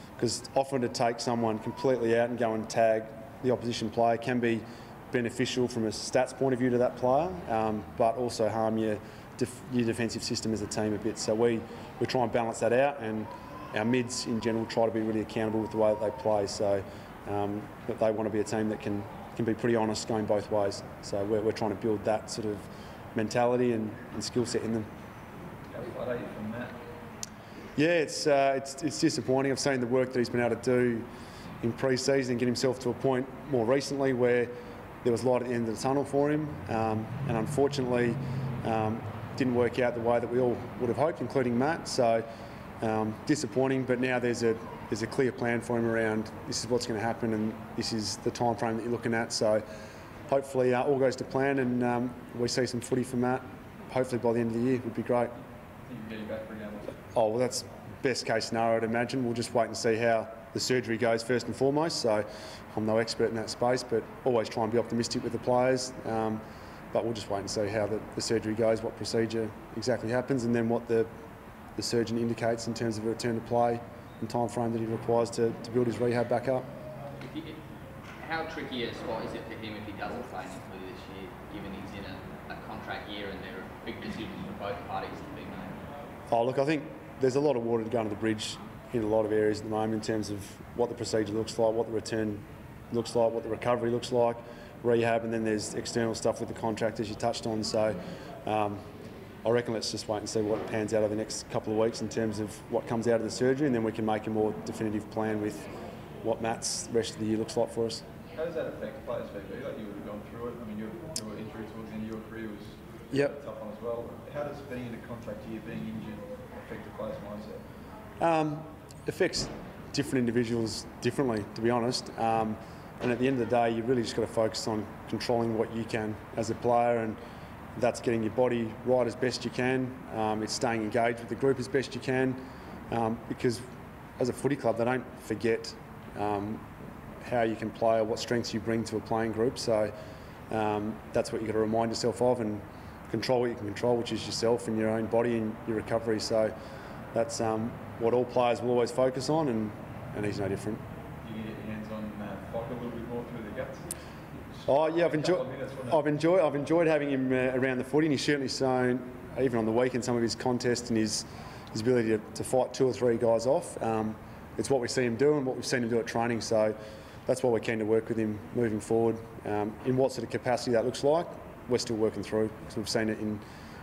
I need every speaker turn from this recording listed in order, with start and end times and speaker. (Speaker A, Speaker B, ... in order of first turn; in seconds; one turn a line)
Speaker A: 0.2-24.9
Speaker B: 25.7-26.8
Speaker A: 27.8-31.1
Speaker A: 31.6-34.5
Speaker A: 35.0-42.3
Speaker A: 42.8-49.6
Speaker A: 50.3-55.3
Speaker B: 55.8-57.0
Speaker A: 57.1-66.4
Speaker A: 66.9-71.1
Speaker A: 71.8-76.7
Speaker C: 77.2-77.6
Speaker C: 78.2-85.8
Speaker A: 86.3-98.8
Speaker A: 99.4-105.7
Speaker A: 106.2-108.0
Speaker B: 108.3-117.6
Speaker A: 118.2-127.2
Speaker A: 127.8-133.6
Speaker A: 134.2-136.6
Speaker A: 137.2-139.9
Speaker A: 140.5-146.5
Speaker A: 147.1-150.8
Speaker B: 151.2-153.9
Speaker B: 154.5-156.0
Speaker A: 154.7-173.4